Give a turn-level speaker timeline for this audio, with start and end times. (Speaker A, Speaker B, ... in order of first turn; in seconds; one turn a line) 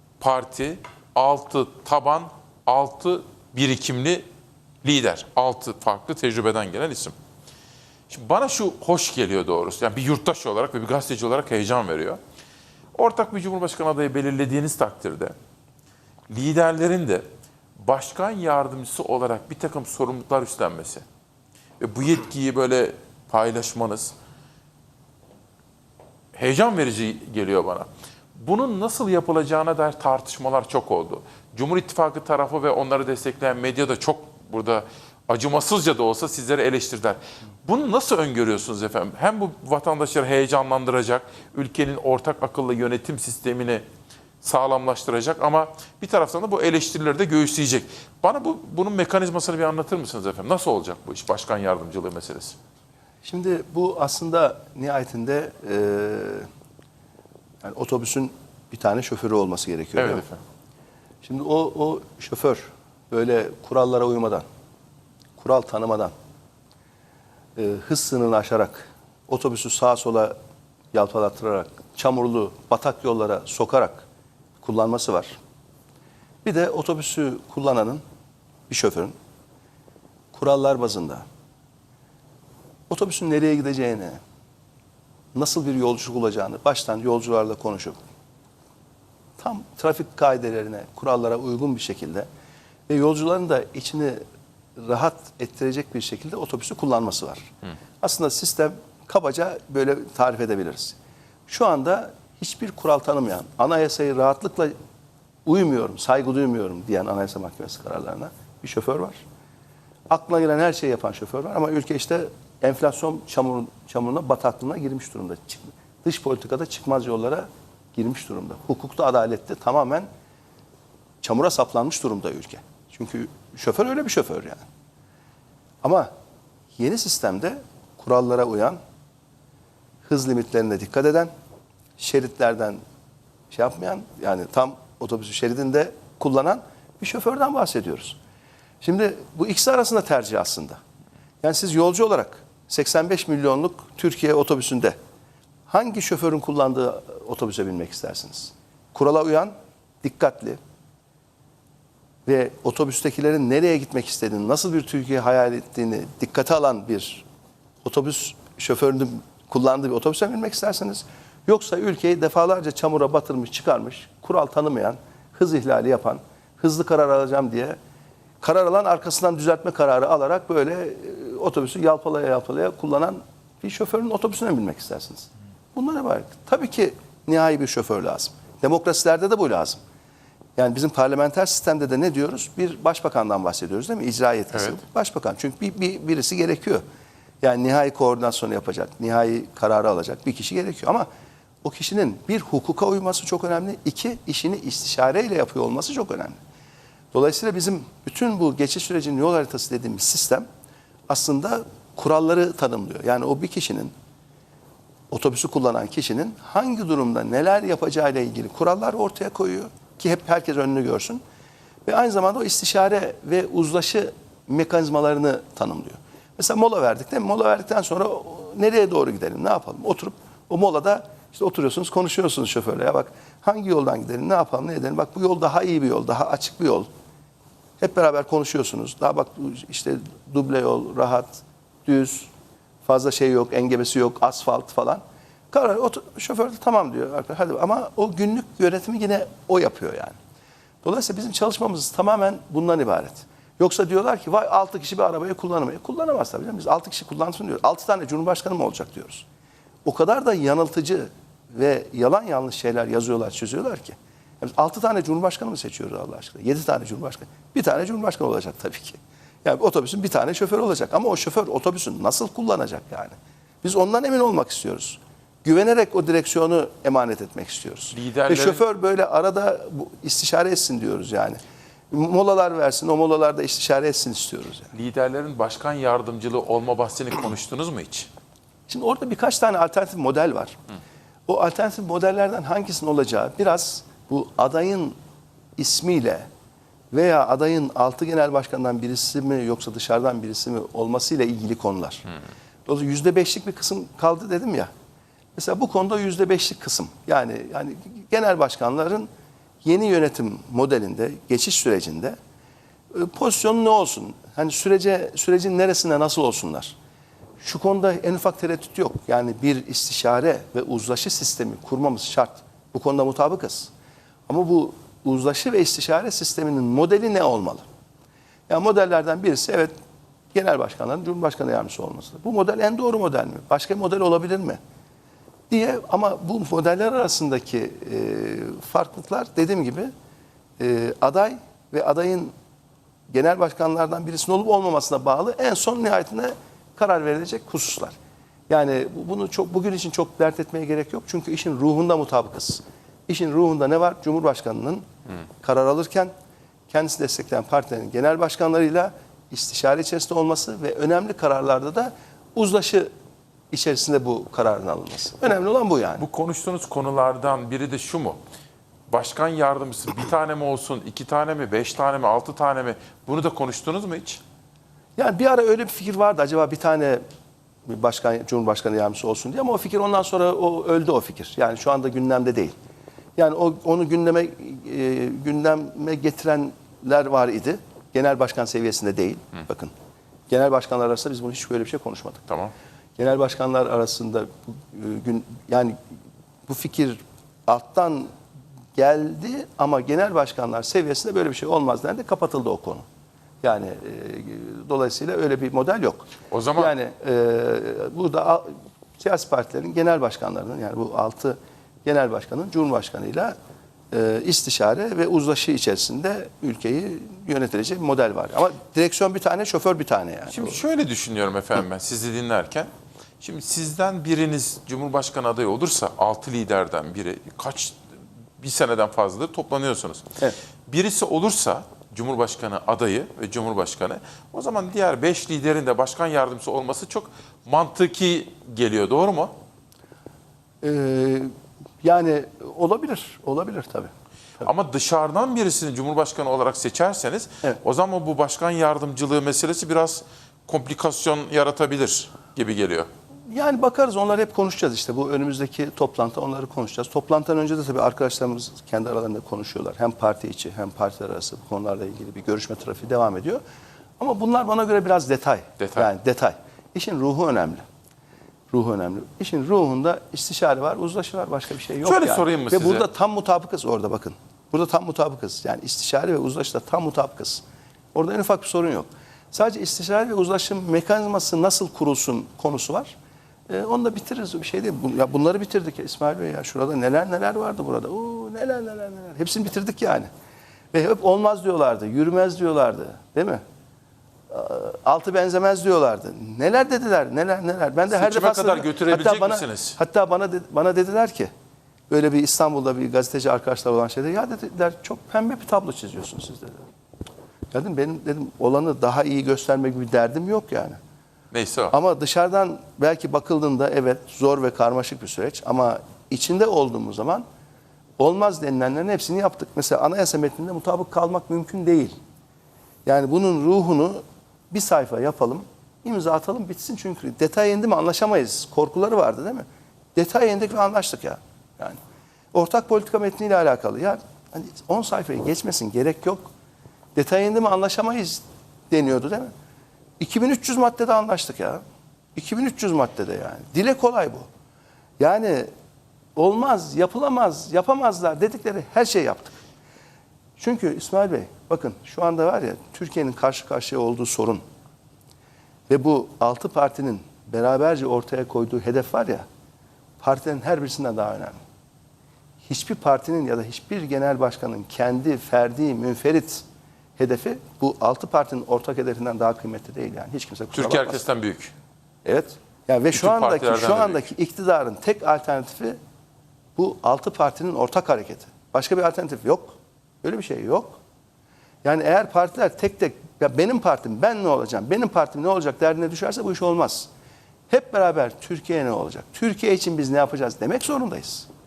Speaker A: 0.2-4.2
Speaker A: 4.8-7.1
Speaker A: 8.1-12.2
Speaker A: 12.9-15.3
Speaker A: 16.3-17.2
Speaker A: 17.8-21.0
Speaker A: 21.8-24.1
Speaker A: 26.3-43.8
Speaker A: 44.4-52.5
Speaker B: 53.2-56.5
Speaker B: 57.6-60.2
Speaker A: 60.0-60.4
Speaker B: 61.2-64.4
Speaker B: 65.4-66.1
Speaker B: 67.5-70.3
Speaker B: 70.9-74.0
Speaker B: 74.6-75.4
Speaker B: 76.4-78.0
Speaker B: 78.7-79.1
Speaker B: 80.3-81.2
Speaker B: 82.9-84.2
Speaker B: 85.3-88.0
Speaker B: 89.4-92.3
Speaker B: 92.9-94.2
Speaker B: 94.8-101.0
Speaker B: 101.5-104.7
Speaker B: 105.4-109.2
Speaker B: 110.1-120.1
Speaker B: 121.2-124.6
Speaker B: 125.8-126.1
Speaker B: 126.8-128.8
Speaker B: 130.0-131.3
Speaker B: 132.0-132.8
Speaker B: 133.5-138.2
Speaker B: 138.8-140.8
Speaker B: 141.4-144.9
Speaker B: 145.7-150.6
Speaker B: 152.2-157.2
Speaker B: 157.8-167.8
Speaker B: 168.4-179.8
Speaker B: 180.6-186.8
Speaker A: 184.5-184.8
Speaker B: 187.4-191.1
Speaker B: 191.6-196.4
Speaker B: 197.1-200.4
Speaker B: 201.1-203.9
Speaker B: 205.1-211.2
Speaker B: 211.8-226.9
Speaker B: 227.8-232.3
Speaker B: 232.8-240.2
Speaker B: 240.8-249.2
Speaker B: 249.8-271.4
Speaker A: 267.9-268.6
Speaker B: 271.9-274.7
Speaker A: 274.7-278.1
Speaker B: 278.7-280.6
Speaker B: 281.3-284.9
Speaker B: 285.6-286.3
Speaker B: 286.9-292.1
Speaker B: 292.6-294.7
Speaker B: 295.3-299.1
Speaker B: 299.6-302.2
Speaker B: 302.9-306.8
Speaker B: 307.4-313.7
Speaker B: 314.3-317.6
Speaker B: 318.5-319.7
Speaker B: 320.3-324.6
Speaker B: 325.5-329.9
Speaker B: 330.6-332.3
Speaker B: 333.1-337.9
Speaker B: 338.5-344.8
Speaker B: 345.4-346.1
Speaker B: 346.7-352.9
Speaker B: 353.5-356.0
Speaker A: 356.0-358.2
Speaker A: 358.9-364.2
Speaker B: 365.0-367.0
Speaker B: 367.7-372.5
Speaker B: 373.2-379.7
Speaker B: 380.3-382.3
Speaker A: 382.3-382.5
Speaker B: 383.0-385.8
Speaker B: 386.4-388.1
Speaker B: 388.7-392.8
Speaker B: 393.4-396.0
Speaker A: 396.3-396.7
Speaker B: 396.6-403.3
Speaker B: 403.9-410.6
Speaker A: 410.3-417.8
Speaker A: 418.4-420.1
Speaker A: 420.7-429.3
Speaker B: 430.6-434.4
Speaker A: 434.4-442.9
Speaker B: 443.3-453.4
Speaker B: 454.0-457.6
Speaker A: 455.6-455.9
Speaker B: 458.5-467.4
Speaker A: 461.8-462.9
Speaker B: 467.9-472.9
Speaker B: 473.5-480.1
Speaker B: 480.7-483.4
Speaker B: 484.3-491.3
Speaker A: 487.9-489.8
Speaker B: 491.9-496.6
Speaker B: 497.5-500.8
Speaker A: 501.3-501.7
Speaker B: 501.7-507.2
Speaker B: 508.0-511.9
Speaker B: 512.8-521.8
Speaker B: 522.3-526.3
Speaker B: 526.9-529.3
Speaker B: 530.0-531.6
Speaker B: 532.1-534.3
Speaker B: 535.0-535.5
Speaker B: 536.1-539.4
Speaker B: 540.4-544.4
Speaker B: 545.7-549.2
Speaker B: 550.0-551.4
Speaker B: 552.4-556.4
Speaker B: 557.0-561.0
Speaker A: 560.5-561.5
Speaker B: 562.0-565.8
Speaker A: 562.9-564.1
Speaker B: 566.5-570.8
Speaker B: 571.6-576.9
Speaker B: 577.5-581.3